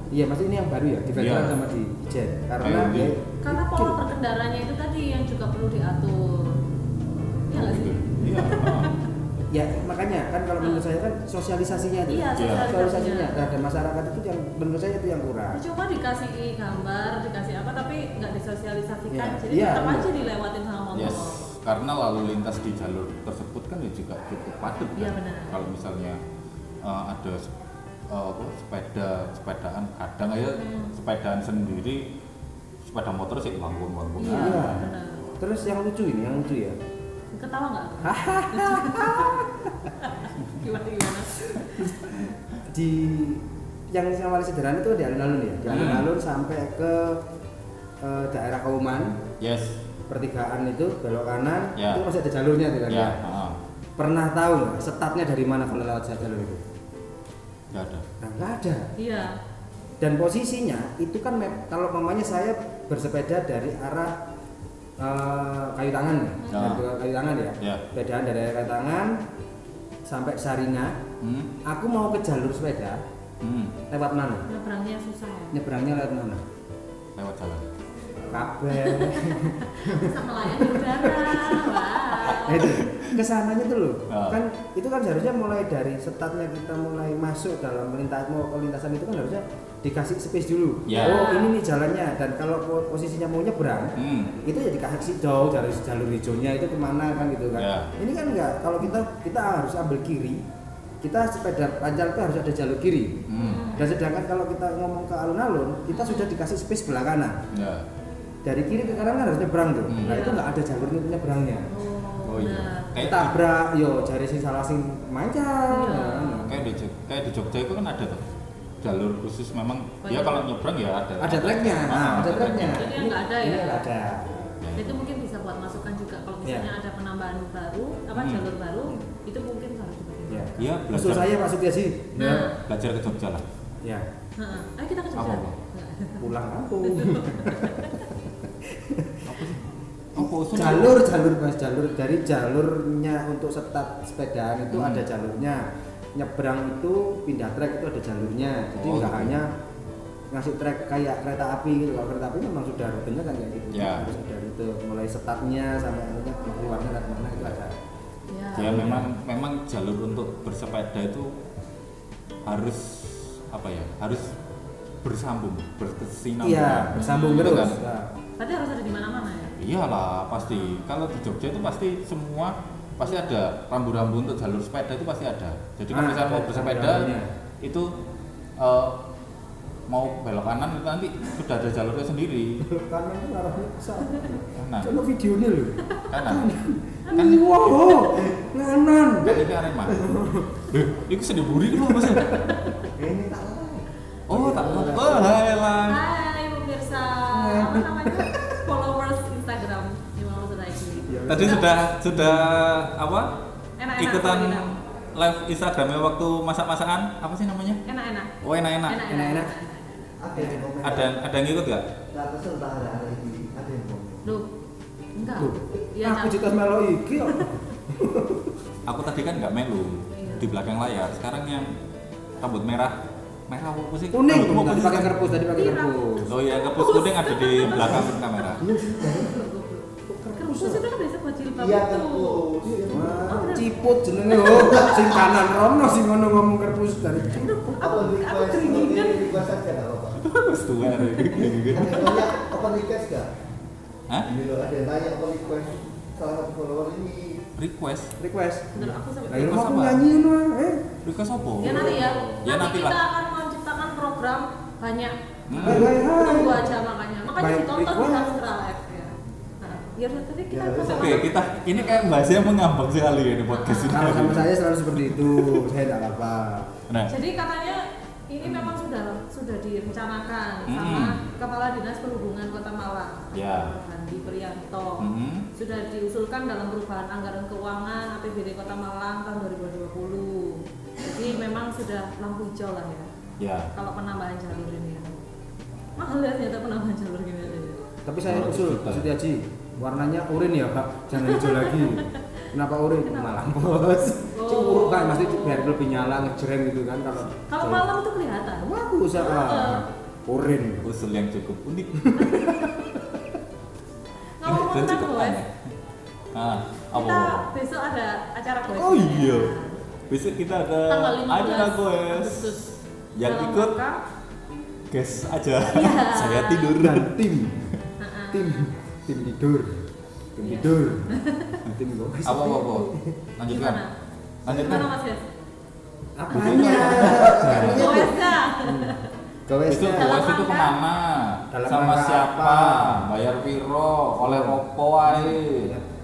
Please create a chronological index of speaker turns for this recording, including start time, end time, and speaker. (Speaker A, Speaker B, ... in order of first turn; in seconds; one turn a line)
Speaker A: 0.1-4.0
Speaker B: 1.2-1.6
Speaker B: 2.6-3.1
Speaker C: 3.4-6.6
Speaker C: 7.5-9.1
Speaker B: 7.5-8.9
Speaker A: 9.5-15.6
Speaker C: 10.6-10.9
Speaker C: 12.1-13.4
Speaker B: 12.4-12.7
Speaker C: 15.5-21.5
Speaker A: 19.1-20.1
Speaker B: 20.9-26.2
Speaker C: 24.9-25.6
Speaker B: 26.8-27.5
Speaker B: 28.1-32.1
Speaker C: 30.6-30.9
Speaker B: 32.8-34.9
Speaker C: 34.2-35.3
Speaker A: 34.3-34.9
Speaker A: 35.4-36.8
Speaker C: 37.3-39.3
Speaker A: 38.0-39.7
Speaker C: 40.0-41.9
Speaker A: 41.5-47.2
Speaker B: 45.7-46.1
Speaker A: 48.0-49.2
Speaker B: 49.4-49.8
Speaker A: 50.1-53.2
Speaker B: 51.8-52.0
Speaker B: 52.9-53.6
Speaker A: 54.0-56.6
Speaker B: 57.7-58.0
Speaker A: 58.2-58.9
Speaker C: 59.0-59.4
Speaker A: 60.0-64.1
Speaker A: 65.0-69.2
Speaker B: 66.5-66.8
Speaker A: 70.1-71.0
Speaker B: 71.2-71.5
Speaker A: 71.7-73.0
Speaker B: 73.4-73.8
Speaker A: 73.9-74.5
Speaker C: 74.5-75.6
Speaker A: 75.5-76.4
Speaker B: 77.2-77.7
Speaker A: 78.3-81.8
Speaker C: 78.7-82.8
Speaker B: 82.1-83.2
Speaker A: 82.4-100.4
Speaker B: 84.1-84.4
Speaker B: 90.9-91.2
Speaker C: 90.9-91.6
Speaker B: 94.0-94.3
Speaker B: 97.5-97.9
Speaker A: 101.0-103.2
Speaker B: 103.3-103.7
Speaker C: 103.4-103.9
Speaker A: 103.7-107.4
Speaker C: 105.9-106.3
Speaker B: 107.5-107.9
Speaker A: 108.5-111.7
Speaker B: 109.9-110.3
Speaker C: 110.0-110.4
Speaker C: 111.7-113.0
Speaker B: 112.2-113.4
Speaker A: 113.0-116.6
Speaker C: 115.7-116.5
Speaker B: 116.5-118.2
Speaker B: 118.8-122.9
Speaker C: 120.0-120.5
Speaker A: 121.2-124.6
Speaker C: 122.6-123.9
Speaker B: 124.6-125.0
Speaker C: 124.8-130.7
Speaker A: 126.4-126.7
Speaker B: 128.1-128.5
Speaker A: 130.3-132.5
Speaker B: 130.6-131.3
Speaker C: 132.2-132.6
Speaker B: 132.6-133.4
Speaker C: 134.4-136.3
Speaker B: 135.2-135.5
Speaker A: 136.2-139.4
Speaker C: 136.8-138.1
Speaker B: 139.2-141.1
Speaker A: 140.2-145.6
Speaker B: 144.7-145.1
Speaker A: 146.2-149.5
Speaker B: 148.8-149.4
Speaker A: 150.3-157.8
Speaker B: 153.7-154.1
Speaker C: 158.3-158.9
Speaker B: 158.6-161.3
Speaker A: 158.6-159.1
Speaker B: 162.5-164.3
Speaker B: 165.0-167.8
Speaker A: 166.4-168.1
Speaker C: 166.9-167.7
Speaker C: 168.4-169.6
Speaker B: 169.6-177.9
Speaker A: 175.9-177.3
Speaker B: 178.6-178.9
Speaker B: 179.9-182.6
Speaker A: 182.7-190.7
Speaker B: 184.6-184.9
Speaker B: 186.1-186.5
Speaker B: 187.1-187.8
Speaker D: 188.1-188.4
Speaker B: 189.2-192.5
Speaker A: 191.8-192.6
Speaker C: 192.3-192.8
Speaker D: 193.0-193.8
Speaker B: 194.3-196.0
Speaker A: 194.3-195.4
Speaker C: 195.9-201.7
Speaker A: 197.3-198.6
Speaker A: 201.1-202.5
Speaker B: 201.3-203.3
Speaker C: 203.8-204.8
Speaker B: 204.0-207.8
Speaker C: 207.8-208.3
Speaker B: 208.4-209.0
Speaker C: 208.9-210.2
Speaker A: 209.1-209.5
Speaker D: 210.2-211.1
Speaker A: 210.3-210.9
Speaker B: 210.8-211.9
Speaker D: 212.1-214.2
Speaker C: 214.2-214.5
Speaker C: 215.2-216.5
Speaker A: 215.3-218.5
Speaker B: 218.9-221.7
Speaker C: 220.1-220.5
Speaker B: 222.4-223.0
Speaker B: 223.5-225.2
Speaker A: 224.1-226.3
Speaker C: 225.5-226.0
Speaker B: 226.2-228.7
Speaker C: 226.5-232.4
Speaker A: 227.7-229.4
Speaker A: 230.1-230.8
Speaker D: 231.6-233.5
Speaker A: 232.6-237.7
Speaker C: 233.0-235.1
Speaker D: 234.3-235.3
Speaker C: 237.3-239.3
Speaker D: 237.8-240.3
Speaker B: 240.2-242.2
Speaker C: 241.0-241.4
Speaker D: 241.4-243.3
Speaker C: 242.0-242.3
Speaker D: 244.2-247.5
Speaker B: 247.6-248.2
Speaker A: 248.2-250.8
Speaker C: 248.8-249.7
Speaker B: 249.3-250.1
Speaker B: 251.0-253.0
Speaker A: 251.6-252.4
Speaker C: 251.6-261.4
Speaker B: 255.5-256.0
Speaker A: 255.6-256.7
Speaker A: 257.3-258.4
Speaker D: 260.5-261.1
Speaker B: 260.8-264.5
Speaker C: 263.5-264.1
Speaker A: 263.9-266.7
Speaker B: 265.1-265.6
Speaker B: 266.9-267.1
Speaker C: 267.1-283.1
Speaker B: 270.7-271.2
Speaker B: 273.3-273.7
Speaker B: 275.0-275.5
Speaker B: 283.4-283.7
Speaker C: 283.7-285.2
Speaker C: 286.0-287.8
Speaker A: 288.1-297.9
Speaker B: 288.2-289.1
Speaker C: 291.1-292.2
Speaker C: 293.1-293.4
Speaker C: 294.3-295.8
Speaker C: 297.5-299.9
Speaker A: 298.6-300.9
Speaker B: 300.8-302.3
Speaker A: 302.0-303.1
Speaker C: 302.3-302.8
Speaker C: 304.4-305.4
Speaker B: 304.4-305.6
Speaker B: 306.3-307.5
Speaker C: 306.9-309.8
Speaker B: 308.7-309.5
Speaker B: 310.1-312.6
Speaker C: 310.9-314.0
Speaker B: 313.2-313.8
Speaker B: 314.9-317.1
Speaker C: 315.6-316.7
Speaker A: 316.8-317.6
Speaker C: 318.0-318.6
Speaker A: 318.3-319.8
Speaker A: 320.4-321.1
Speaker C: 320.4-321.6
Speaker A: 321.7-323.1
Speaker B: 322.2-323.8
Speaker C: 323.5-323.9
Speaker B: 324.4-324.9
Speaker A: 324.4-324.9
Speaker C: 324.5-325.2
Speaker A: 326.2-328.9
Speaker B: 326.3-328.1
Speaker C: 326.3-329.1
Speaker D: 326.7-327.4
Speaker A: 329.5-330.2
Speaker B: 329.7-335.8
Speaker C: 329.9-330.8
Speaker A: 331.5-333.1
Speaker A: 334.2-335.8